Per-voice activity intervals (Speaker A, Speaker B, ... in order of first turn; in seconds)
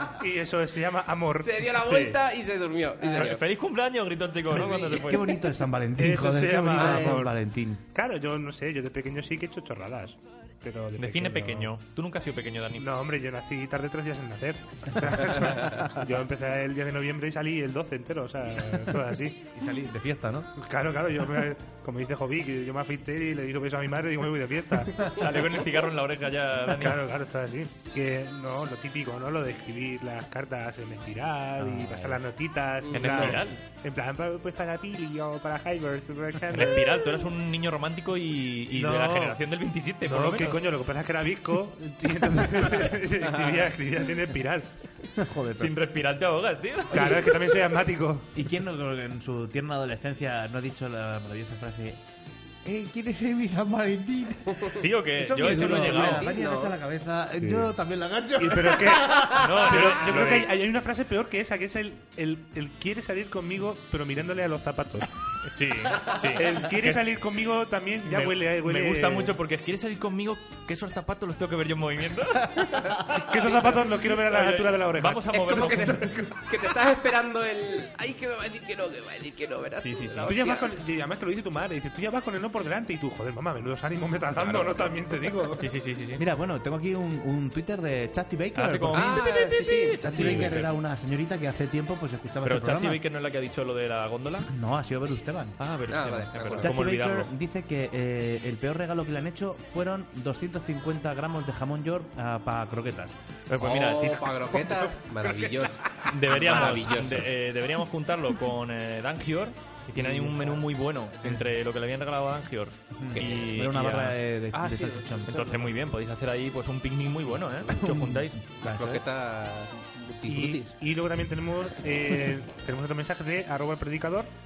Speaker A: 0.2-1.7, 6.0-7.3, 7.9-11.7, 12.8-19.4, 20.6-25.1, 26.7-37.0, 38.7-39.4, 40.0-44.7, 46.9-48.3, 57.4-57.7, 58.4-65.1, 66.4-69.3, 73.3-76.1, 80.2-85.6, 120.2-124.3
Speaker B: 1.4-3.4, 4.5-5.0, 6.8-7.1, 32.8-33.4, 55.6-56.8, 75.3-80.7, 84.4-84.8, 88.9-90.5, 95.9-96.8, 103.6-107.3, 113.2-113.6, 114.5-115.5, 118.6-120.7
Speaker C: 1.8-2.1, 3.1-5.3, 10.9-12.8, 25.1-27.0, 32.9-33.6, 36.5-40.5, 45.6-47.1, 54.7-56.2, 59.4-60.5, 65.5-67.0, 68.1-76.0, 79.8-80.3, 85.6-86.2, 88.5-90.7, 92.4-94.5, 95.6-97.3, 103.5-104.3, 106.1-114.2, 115.3-118.3
Speaker D: 4.8-7.8, 19.5-20.5, 45.1-45.7, 48.3-52.0, 52.6-54.6, 55.1-60.0, 86.2-89.3, 90.0-93.0, 94.5-95.6, 96.6-103.1, 110.0-110.5, 113.0-115.6, 117.8-119.0